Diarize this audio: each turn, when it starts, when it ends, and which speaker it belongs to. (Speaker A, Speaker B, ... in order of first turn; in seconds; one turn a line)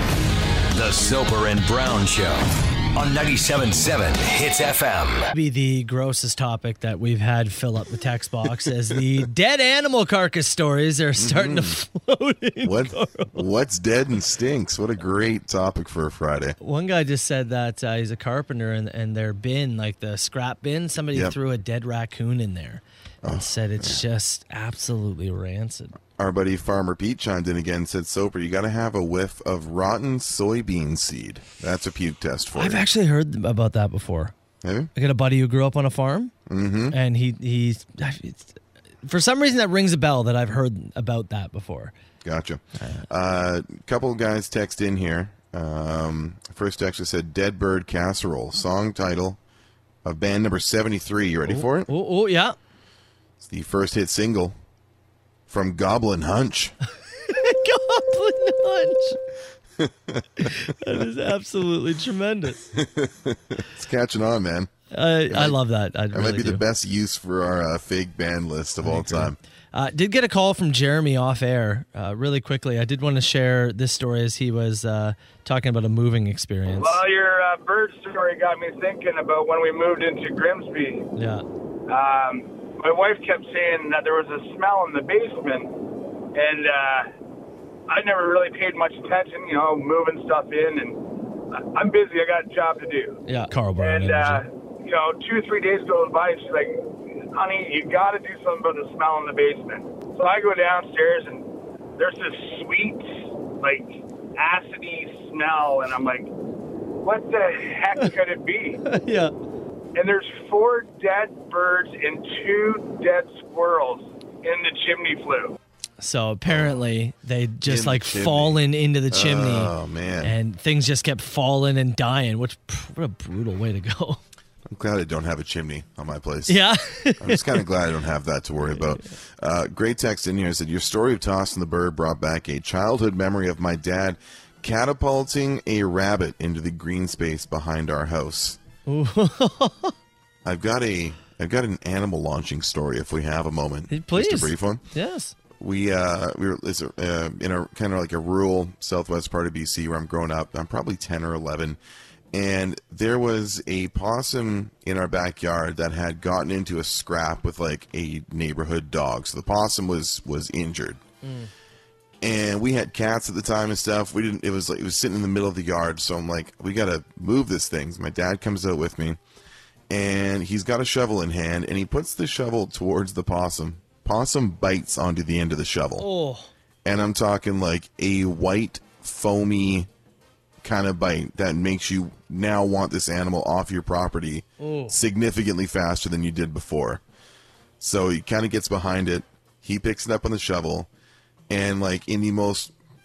Speaker A: 0.7-5.3
Speaker B: 5.3-13.4
Speaker C: 11.2-11.8
Speaker C: 12.6-16.6
Speaker B: 16.6-26.0
Speaker C: 23.2-24.0
Speaker C: 26.2-32.9
Speaker B: 32.5-34.3
Speaker C: 34.6-34.9
Speaker B: 35.0-36.3
Speaker C: 36.5-37.0
Speaker B: 36.9-41.9
Speaker C: 42.2-49.4
Speaker B: 42.8-43.1
Speaker C: 50.0-51.9
Speaker B: 51.5-52.6
Speaker C: 53.4-54.6
Speaker C: 55.5-56.8
Speaker B: 57.2-59.2
Speaker C: 59.8-60.2
Speaker B: 60.4-62.6
Speaker C: 62.7-64.7
Speaker B: 64.9-66.6
Speaker C: 65.3-65.6
Speaker C: 66.1-69.4
Speaker B: 68.8-77.0
Speaker D: 76.8-81.1
Speaker B: 81.2-81.5
Speaker D: 81.9-85.7
Speaker D: 86.3-87.1
Speaker D: 87.9-91.0
Speaker D: 91.5-93.2
Speaker B: 93.3-94.4
Speaker D: 93.8-101.5
Speaker D: 102.0-106.3
Speaker D: 107.0-108.8
Speaker B: 108.9-109.3
Speaker D: 110.0-115.6
Speaker B: 116.0-124.2
Speaker C: 116.5-116.8
Speaker C: 117.7-120.4
Speaker C: 124.7-126.6
Speaker B: 126.5-127.6
Speaker C: 127.2-138.6
Speaker B: 138.9-139.9
Speaker C: 140.4-144.8
Speaker B: 143.9-145.3
Speaker C: 145.6-151.8
Speaker C: 152.3-161.0
Speaker B: 161.2-161.5
Speaker C: 162.2-169.2
Speaker C: 169.9-176.1
Speaker B: 176.0-176.5
Speaker C: 176.8-179.9
Speaker C: 180.6-187.0
Speaker B: 184.6-184.9
Speaker C: 187.8-190.9
Speaker C: 191.5-192.7